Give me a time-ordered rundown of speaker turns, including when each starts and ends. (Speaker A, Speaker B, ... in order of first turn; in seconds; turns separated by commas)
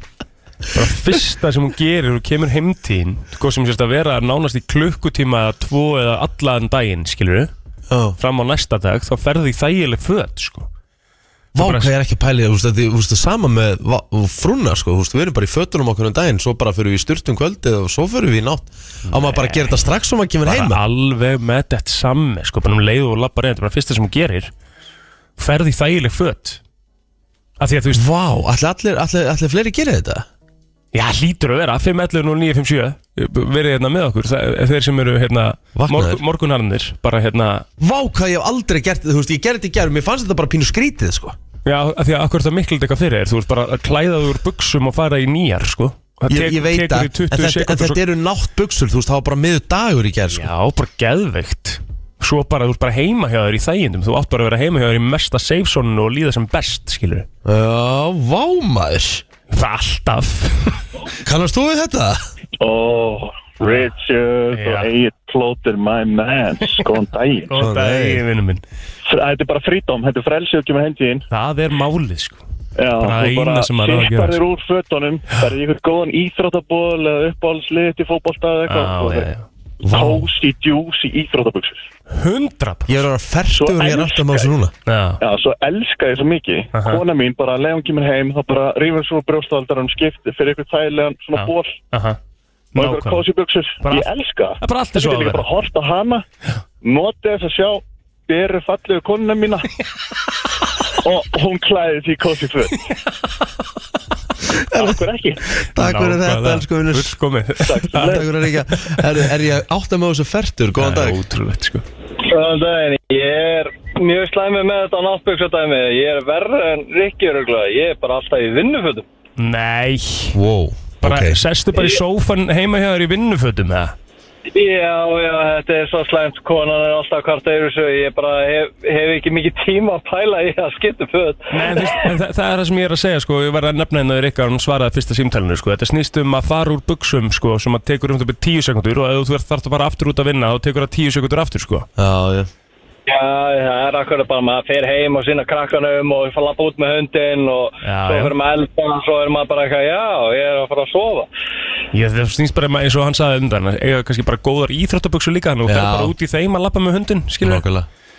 Speaker A: 0.7-7.5, Speaker B: 7.9-8.2, Speaker A: 8.2-10.7, Speaker B: 11.5-20.8, Speaker A: 11.6-11.9, Speaker A: 19.1-19.8, Speaker A: 20.4-24.5, Speaker A: 25.4-26.6, Speaker A: 27.6-28.0, Speaker B: 27.9-30.3, Speaker A: 30.9-37.7, Speaker B: 35.7-36.2, Speaker B: 37.8-41.4, Speaker A: 41.6-48.0, Speaker B: 46.3-50.5, Speaker A: 50.3-57.3, Speaker B: 57.4-59.2, Speaker A: 59.5-60.8, Speaker B: 61.2-62.3, Speaker C: 62.6-67.5, Speaker A: 63.6-63.9, Speaker A: 64.5-64.9, Speaker A: 67.5-68.6, Speaker B: 67.5-68.2, Speaker C: 69.1-71.2, Speaker A: 71.3-72.4, Speaker C: 72.8-79.3, Speaker A: 73.0-74.4, Speaker A: 78.7-79.5, Speaker B: 79.8-80.3, Speaker C: 79.9-81.8, Speaker A: 82.1-83.0, Speaker B: 82.9-84.7, Speaker C: 83.5-84.5, Speaker A: 84.8-85.2, Speaker C: 85.2-91.8, Speaker A: 86.7-87.0, Speaker A: 91.3-92.2, Speaker A: 92.7-93.2, Speaker C: 92.8-96.2, Speaker A: 93.8-95.5, Speaker C: 96.8-99.7, Speaker C: 101.0-102.8, Speaker B: 104.7-107.2, Speaker C: 104.7-105.5, Speaker A: 105.8-108.3, Speaker C: 107.6-108.3, Speaker B: 107.9-111.2, Speaker A: 110.8-111.8, Speaker D: 112.2-119.0, Speaker A: 119.4-120.3, Speaker B: 120.3-121.4, Speaker A: 121.0-123.9, Speaker D: 124.5-131.9, Speaker A: 131.5-141.9, Speaker B: 142.0-142.5, Speaker D: 143.1-151.3, Speaker A: 147.8-148.3, Speaker A: 151.9-157.6, Speaker B: 155.7-156.1, Speaker B: 157.4-157.9